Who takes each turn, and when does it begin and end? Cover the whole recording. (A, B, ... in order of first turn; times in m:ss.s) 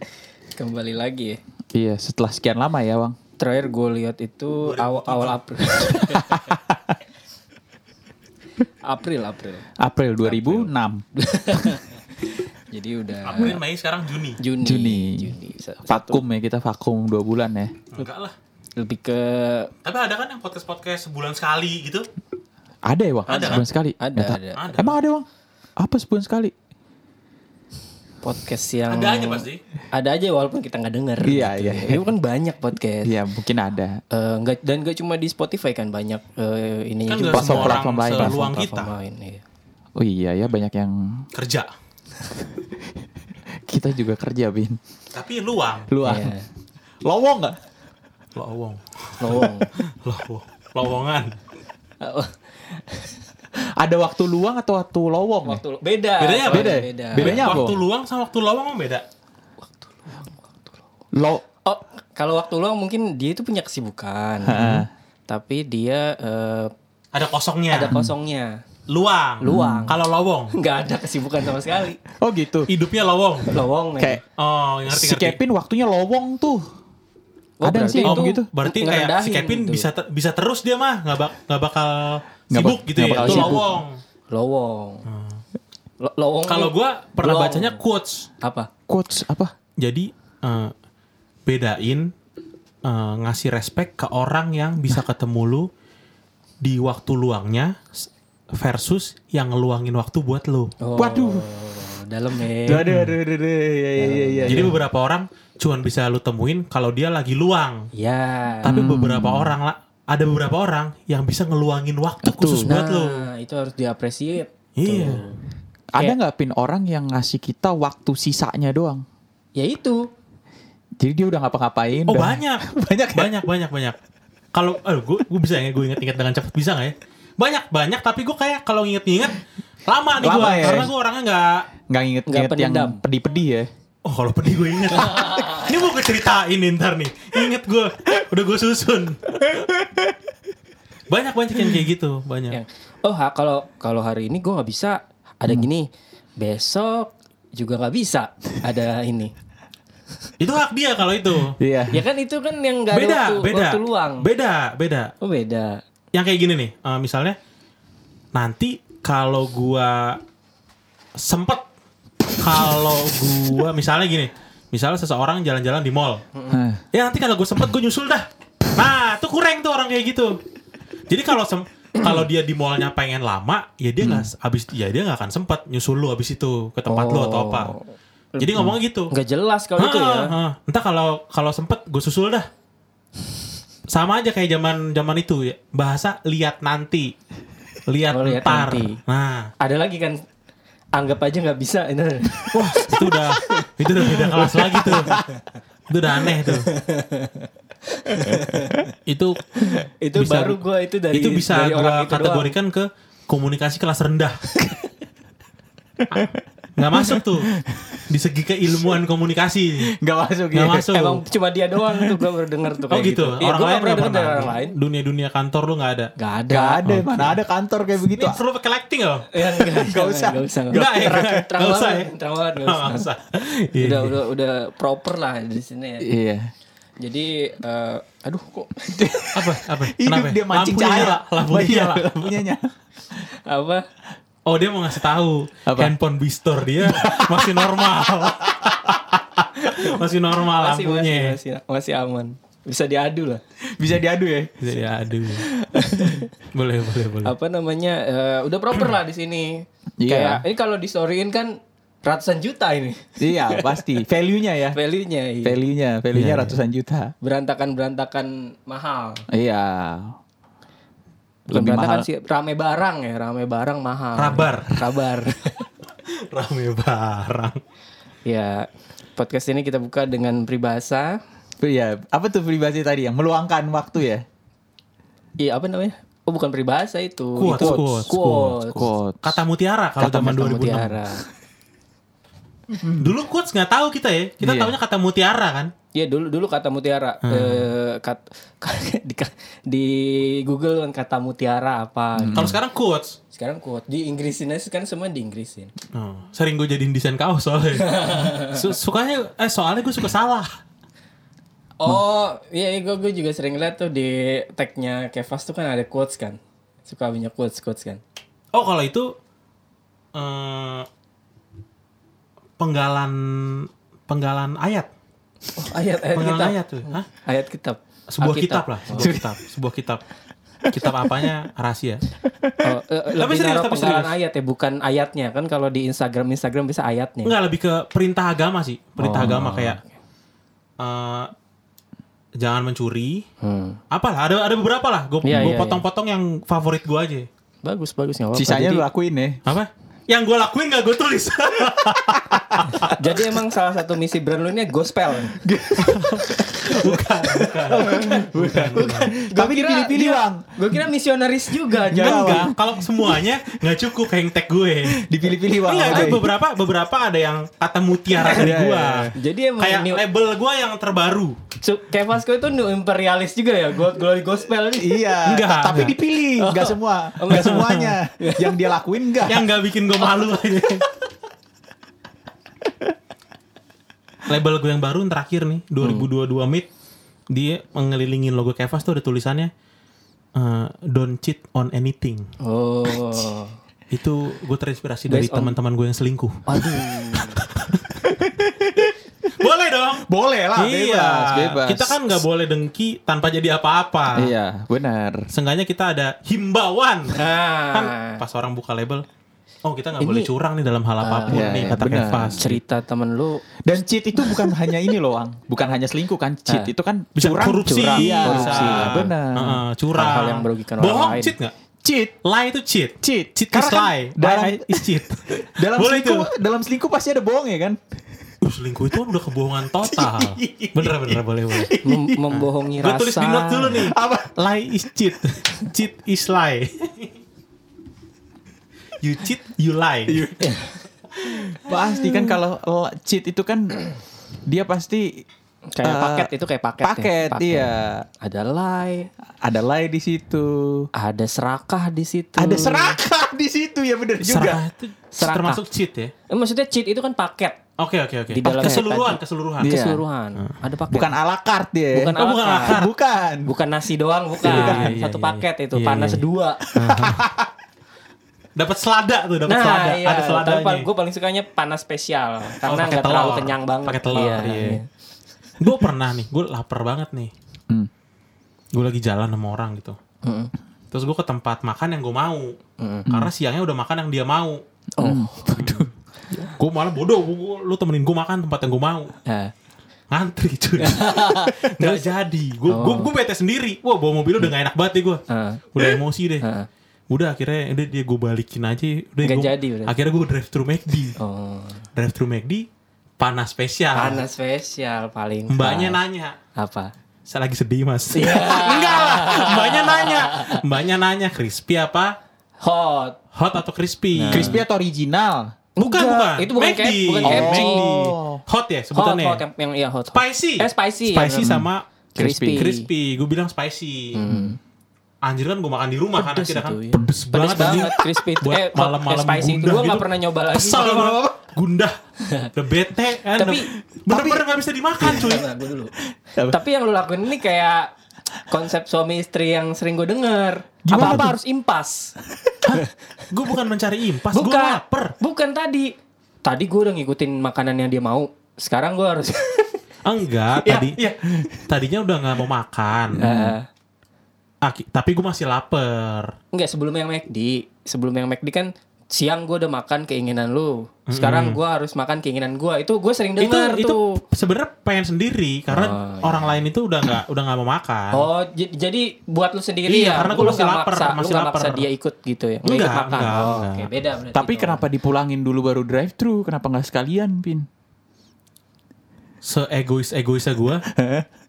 0:00.6-0:01.4 A
0:01.7-0:03.2 B
0:03.4-0:06.4 A
0:04.6-0:06.0 C
0:06.2-0:07.0 B
0:08.9-0:09.7 A
0:09.8-0:11.8 B
0:10.2-0:13.6 A
0:13.2-0:14.4 C
0:14.4-0:16.2 A
0:14.6-0:15.3 B
0:15.9-0:17.8 B
0:17.9-0:18.4 C
0:18.8-0:19.7 A
0:19.8-0:22.1 C
0:22.9-0:25.2 B
0:23.3-0:24.8 A
0:23.3-0:23.6 C
0:24.6-0:24.9 C
0:25.8-0:26.5 B
0:28.2-0:33.1 A
0:28.9-0:29.6 C
0:31.2-0:32.0 B
0:33.0-0:34.0 B
0:34.1-0:39.4 A
0:37.1-0:38.9 C
0:37.3-0:38.4 B
0:40.0-0:41.3 B
0:41.3-0:41.7 C
0:42.5-0:42.9 B
0:43.7-0:44.8 B
0:45.1-0:45.9 C
0:45.9-0:46.3 B
0:46.0-0:46.5 A
0:47.0-0:47.6 B
0:48.4-0:51.4 C
0:49.2-0:49.7 A
0:52.0-0:53.2 A
0:53.8-0:55.6 B
0:55.4-0:57.6 A
0:56.2-0:59.0 C
0:56.5-0:57.8 B
0:59.8-1:00.8 A
1:01.1-1:01.4 B
1:01.6-1:06.7 A
1:04.4-1:04.9 B
1:07.1-1:08.0 C
1:07.7-1:08.6 A
1:08.9-1:10.6 C
1:09.4-1:10.0 A
1:09.4-1:09.9 B
1:10.5-1:12.0 A
1:12.2-1:12.7 B
1:12.7-1:13.5 C
1:13.5-1:14.2 A
1:14.4-1:15.4 C
1:14.9-1:16.6 B
1:17.6-1:19.9 A
1:17.6-1:18.5 B
1:18.0-1:24.0 C
1:22.5-1:23.7 B
1:23.2-1:23.7 A
1:24.3-1:25.1 A
1:25.1-1:25.4 C
1:26.0-1:27.8 A
1:26.5-1:28.3 C
1:28.4-1:28.7 A
1:28.9-1:29.5 B
1:29.8-1:30.7 C
1:31.5-1:32.1 C
1:32.8-1:35.7 C
1:36.6-1:40.8 C
1:40.8-1:42.8 A
1:41.0-1:41.5 B
1:42.7-1:44.8 B
1:42.7-1:43.1 C
1:44.0-1:44.7 A
1:44.5-1:47.9 C
1:47.9-1:48.7 A
1:48.6-1:53.3 C
1:48.6-1:49.6 B
1:52.2-1:52.7 B
1:52.7-1:55.4 A
1:54.8-1:55.2 C
1:55.9-1:59.0 B
1:59.6-2:00.0 A
2:01.0-2:03.3 B
2:02.1-2:04.0 C
2:04.5-2:11.7 C
2:10.2-2:10.9 B
2:11.9-2:13.7 B
2:12.3-2:13.0 A
2:14.0-2:19.5 C
2:15.0-2:15.7 A
2:19.5-2:20.1 B
2:21.1-2:22.6 C
2:22.5-2:25.9 A
2:26.4-2:29.3 A
2:30.4-2:31.6 C
2:31.6-2:32.0 B
2:31.9-2:34.3 A
2:32.9-2:35.1 C
2:35.2-2:35.8 A
2:36.1-2:37.4 C
2:38.3-2:40.2 C
2:41.2-2:41.6 C
2:42.4-2:46.2 C
2:46.4-2:46.6 A
2:46.5-2:46.8 B
2:46.9-2:50.4 C
2:51.1-2:57.8 C
2:54.0-2:54.3 B
2:56.9-2:57.8 A
2:58.4-3:00.3 A
2:58.4-2:59.1 C
2:59.8-3:02.5 C
3:03.9-3:07.1 C
3:07.9-3:09.5 C
3:08.1-3:09.0 A
3:09.6-3:10.2 A
3:10.9-3:15.4 A
3:12.5-3:15.2 C
3:14.9-3:15.2 B
3:15.9-3:16.7 C
3:16.5-3:18.9 A
3:18.3-3:18.8 B
3:19.1-3:19.5 C
3:19.6-3:22.5 A
3:20.2-3:20.6 C
3:21.1-3:24.4 C
3:24.6-3:24.9 A
3:26.1-3:27.5 C
3:27.0-3:28.0 B
3:28.1-3:29.9 C
3:29.9-3:30.9 B
3:30.5-3:31.2 C
3:30.9-3:34.8 A
3:31.9-3:32.2 B
3:32.9-3:36.1 C
3:36.2-3:36.9 A
3:36.5-3:38.4 B
3:36.8-3:37.4 C
3:38.1-3:39.3 C
3:39.3-3:43.1 A
3:39.6-3:41.4 B
3:40.7-3:42.1 C
3:42.6-3:44.2 C
3:43.7-3:46.1 A
3:46.0-3:46.5 B
3:47.0-3:49.1 A
3:48.9-3:52.7 B
3:49.3-3:52.4 C
3:53.4-3:53.9 A
3:54.5-4:01.4 C
3:55.7-3:56.0 B
3:56.8-3:58.9 B
3:59.6-4:00.0 A
4:00.5-4:03.4 A
4:03.8-4:04.5 B
4:04.6-4:05.5 C
4:05.4-4:06.3 A
4:06.5-4:07.3 C
4:07.2-4:13.9 A
4:10.0-4:10.4 B
4:13.2-4:14.8 B
4:14.7-4:15.6 A
4:15.4-4:17.1 B
4:16.1-4:16.6 C
4:17.2-4:19.2 A
4:19.3-4:20.2 B
4:21.5-4:22.1 B
4:21.5-4:25.7 A
4:24.2-4:24.8 C
4:26.0-4:27.6 C
4:28.3-4:31.2 A
4:31.6-4:34.2 B
4:35.4-4:38.9 A
4:37.4-4:38.6 C
4:37.5-4:38.1 B
4:38.7-4:39.4 B
4:39.2-4:41.0 C
4:40.0-4:41.2 A
4:42.7-4:43.1 B
4:42.9-4:45.7 C
4:44.4-4:44.8 B
4:45.9-4:52.6 A
4:47.2-4:47.7 C
4:52.2-4:52.6 B
4:52.3-4:53.2 C
4:53.3-4:55.7 A
4:55.9-5:00.5 C
4:57.8-4:58.7 A
5:01.8-5:08.0 A
5:08.5-5:09.1 C
5:10.2-5:10.9 C
5:12.6-5:14.9 C
5:15.6-5:19.1 A
5:16.2-5:17.1 C
5:18.1-5:20.0 C
5:18.9-5:19.3 B
5:20.7-5:21.3 B
5:20.7-5:22.0 C
5:22.3-5:22.6 B
5:22.6-5:27.3 A
5:23.2-5:24.2 C
5:27.2-5:29.8 C
5:29.0-5:29.4 A
5:29.1-5:29.8 B
5:30.8-5:31.3 C
5:32.4-5:33.2 C
5:33.4-5:33.8 A
5:33.9-5:37.3 C
5:35.2-5:35.8 A
5:37.6-5:38.9 A
5:38.3-5:39.4 B
5:39.5-5:43.0 C
5:42.0-5:42.8 B
5:42.8-5:45.4 A
5:45.4-5:50.5 B
5:45.8-5:49.1 C
5:48.0-5:52.5 A
5:51.8-5:53.3 B
5:52.0-5:55.0 C
5:54.8-5:56.3 B
5:55.6-6:01.4 C
5:55.9-5:56.2 A
5:58.2-5:59.2 B
5:59.2-6:00.0 A
6:01.6-6:05.1 A
6:04.8-6:09.5 B
6:05.2-6:06.0 C
6:06.4-6:08.7 A
6:07.3-6:08.0 C
6:09.3-6:10.9 C
6:14.3-6:16.7 C
6:17.3-6:19.5 C
6:20.4-6:22.3 C
6:22.4-6:23.6 A
6:23.9-6:27.8 C
6:25.1-6:25.5 A
6:26.5-6:27.4 A
6:28.0-6:28.9 B
6:29.3-6:34.3 C
6:30.1-6:32.2 B
6:34.1-6:35.3 B
6:35.3-6:37.2 C
6:37.1-6:38.2 A
6:37.7-6:39.0 C
6:39.6-6:42.6 C
6:40.0-6:40.3 A
6:41.0-6:41.8 A
6:41.3-6:42.4 B
6:42.4-6:43.4 A
6:43.6-6:49.6 B
6:44.2-6:44.7 A
6:47.2-6:51.5 C
6:47.7-6:49.0 A
6:50.0-6:51.4 A
6:51.8-6:52.2 B
6:52.2-6:56.3 C
6:53.0-6:57.8 B
6:58.4-7:01.8 C
6:59.8-7:02.2 B
7:01.8-7:03.8 A
7:02.3-7:07.1 C
7:03.7-7:04.3 B
7:09.0-7:10.3 C
7:10.1-7:10.6 B
7:10.4-7:10.8 A
7:11.2-7:13.8 B
7:14.5-7:15.3 B
7:15.7-7:19.1 A
7:15.8-7:16.3 B
7:16.8-7:18.1 B
7:19.4-7:20.9 B
7:21.0-7:23.0 A
7:22.4-7:24.6 B
7:24.2-7:26.1 C
7:25.1-7:25.6 A
7:26.3-7:27.6 A
7:27.8-7:29.7 C
7:28.3-7:31.1 A
7:28.4-7:28.8 B
7:29.6-7:30.0 B
7:30.9-7:33.5 B
7:31.9-7:32.8 A
7:32.2-7:32.9 C
7:33.4-7:36.7 A
7:34.4-7:35.0 B
7:34.4-7:36.2 C
7:36.7-7:37.5 B
7:36.7-7:37.2 C
7:38.6-7:40.9 C
7:39.5-7:44.8 A
7:42.6-7:44.8 C
7:44.4-7:44.8 B
7:45.6-7:47.3 C
7:48.7-7:50.0 C
7:50.2-7:50.5 A
7:50.9-7:52.6 C
7:52.8-7:53.1 A
7:53.1-7:54.6 C
7:55.0-7:55.6 A
7:55.0-7:55.9 B
7:55.6-7:59.1 C
7:59.3-7:59.5 A
8:00.1-8:05.2 C
8:00.8-8:02.1 A
8:02.7-8:03.1 A
8:05.3-8:05.8 A
8:05.7-8:06.5 C
8:06.4-8:06.7 A
8:07.1-8:11.2 C
8:09.2-8:09.9 A
8:11.2-8:11.9 A
8:12.0-8:12.7 C
8:13.2-8:14.2 C
8:14.0-8:16.0 A
8:15.5-8:16.4 C
8:16.6-8:16.9 A
8:17.3-8:22.1 C
8:18.1-8:20.6 A
8:22.6-8:23.2 A
8:23.4-8:24.6 C
8:24.2-8:24.6 A
8:24.3-8:25.5 B
8:25.8-8:27.8 A
8:25.8-8:29.4 C
8:27.3-8:28.4 B
8:28.9-8:31.6 A
8:30.1-8:31.8 C
8:31.4-8:32.7 B
8:32.2-8:32.9 A
8:32.5-8:34.2 C
8:34.1-8:34.6 A
8:35.2-8:42.0 C
8:36.2-8:41.2 A
8:37.6-8:38.0 B
8:40.7-8:41.4 B
8:42.2-8:42.5 A
8:42.6-8:45.5 C
8:43.4-8:43.7 A
8:44.1-8:44.4 B
8:45.0-8:45.9 A
8:46.2-8:46.6 B
8:46.5-8:47.9 A
8:48.5-8:52.1 A
8:50.8-8:51.3 B
8:51.0-8:51.3 C
8:52.6-8:55.2 C
8:54.3-8:55.9 A
8:56.4-8:59.8 A
9:00.0-9:01.0 C
9:00.6-9:01.1 A
9:01.6-9:03.3 C
9:03.1-9:03.6 B
9:03.2-9:03.7 A
9:04.6-9:06.3 C
9:06.5-9:14.2 A
9:11.1-9:11.6 C
9:13.4-9:18.3 C
9:15.7-9:16.5 A
9:18.1-9:24.8 A
9:19.9-9:21.9 C
9:22.6-9:23.9 C
9:24.4-9:27.7 B
9:29.4-9:30.9 C
9:30.9-9:31.3 B